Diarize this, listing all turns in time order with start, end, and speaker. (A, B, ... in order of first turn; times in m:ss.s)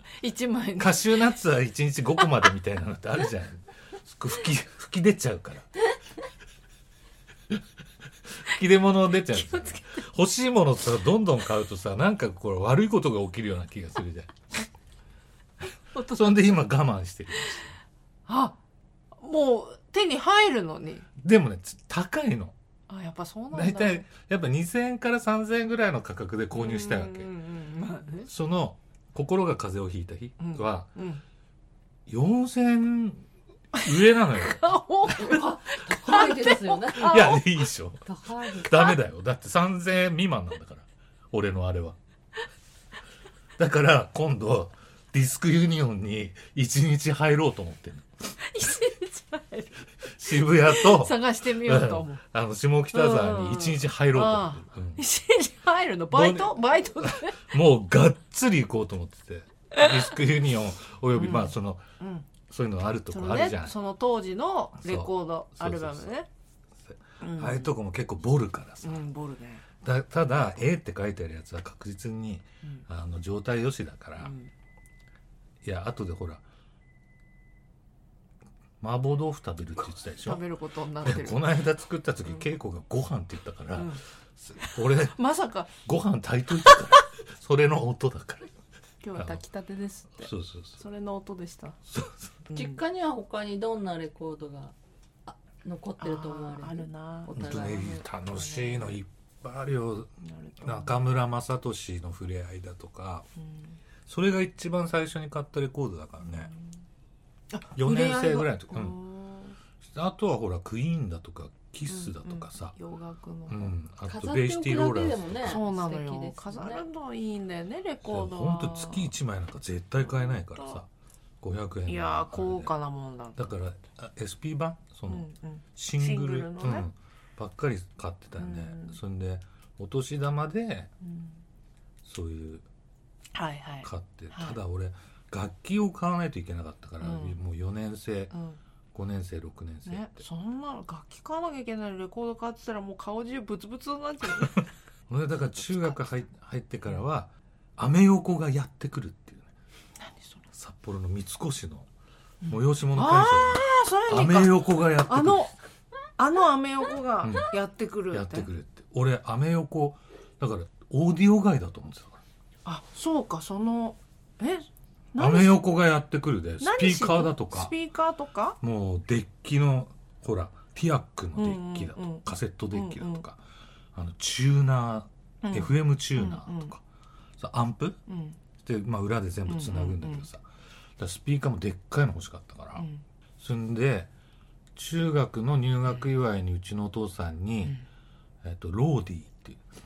0:00.2-0:01.1 A
0:00.8-0:05.7 B
0:08.3-0:14.7 B
0:09.3-0:09.8 A
0:15.9-0:16.6 A
0:16.0-0:17.7 B
0:18.3-0:18.6 A
0:19.1-0:21.1 A
0:21.2-0:22.5 B
0:22.9-0:24.0 A
0:23.5-0:27.3 B
0:26.5-0:28.3 A
0:28.2-0:30.9 B
0:30.4-0:31.2 A
0:32.1-0:33.2 B
0:33.8-0:34.7 B
0:33.8-0:37.4 A
0:35.1-0:37.4 C
0:36.9-0:42.0 B
0:38.0-0:38.9 C
0:38.6-0:38.9 A
0:43.6-0:48.1 B
0:48.4-0:49.8 A
0:50.0-0:55.0 B
0:50.3-0:52.2 A
0:52.9-0:57.5 A
0:56.1-1:01.9 B
1:01.1-1:02.3 A
1:02.5-1:03.8 B
1:03.1-1:06.3 A
1:04.8-1:06.1 B
1:06.9-1:09.0 B
1:07.2-1:07.7 A
1:08.8-1:09.6 A
1:09.8-1:14.3 B
1:14.2-1:14.5 A
1:15.6-1:16.4 B
1:18.8-1:20.4 B
1:20.2-1:21.4 A
1:21.0-1:25.2 B
1:23.7-1:24.0 A
1:24.6-1:25.7 A
1:25.8-1:28.6 B
1:29.0-1:31.8 A
1:29.2-1:29.4 B
1:30.2-1:30.8 B
1:31.9-1:32.4 B
1:32.5-1:32.8 A
1:32.5-1:34.7 C
1:35.3-1:37.9 C
1:36.0-1:39.0 A
1:37.3-1:43.3 B
1:40.2-1:41.0 A
1:43.4-1:43.8 A
1:44.1-1:46.5 B
1:46.2-1:46.7 A
1:47.5-1:49.6 A
1:47.7-1:49.0 B
1:49.8-1:52.8 B
1:51.9-1:53.7 A
1:53.5-1:55.4 B
1:54.1-1:56.8 C
1:55.4-1:59.1 A
1:58.0-2:00.9 B
2:00.2-2:00.8 A
2:01.4-2:02.7 B
2:01.9-2:03.5 A
2:03.4-2:10.9 B
2:05.1-2:06.9 A
2:08.4-2:09.0 A
2:11.0-2:11.4 A
2:12.0-2:12.6 B
2:13.3-2:14.6 A
2:13.8-2:18.3 B
2:17.0-2:17.4 A
2:18.3-2:18.6 A
2:18.9-2:20.2 B
2:19.8-2:24.6 A
2:25.1-2:29.5 B
2:25.5-2:26.0 A
2:30.0-2:30.4 A
2:30.5-2:31.9 B
2:32.4-2:35.5 A
2:32.5-2:35.5 B
2:36.2-2:38.5 A
2:37.2-2:37.5 B
2:38.1-2:42.2 B
2:42.6-2:45.6 A
2:45.2-2:47.7 B
2:46.6-2:48.6 A
2:48.6-2:53.4 B
2:51.4-2:53.2 A
2:53.9-2:56.8 B
2:55.4-2:56.7 A
2:57.4-2:58.0 B
2:58.1-2:58.4 A
2:58.6-3:00.4 B
2:59.5-3:00.3 A
3:01.0-3:02.8 B
3:03.4-3:04.1 B
3:04.7-3:07.8 B
3:08.4-3:09.6 B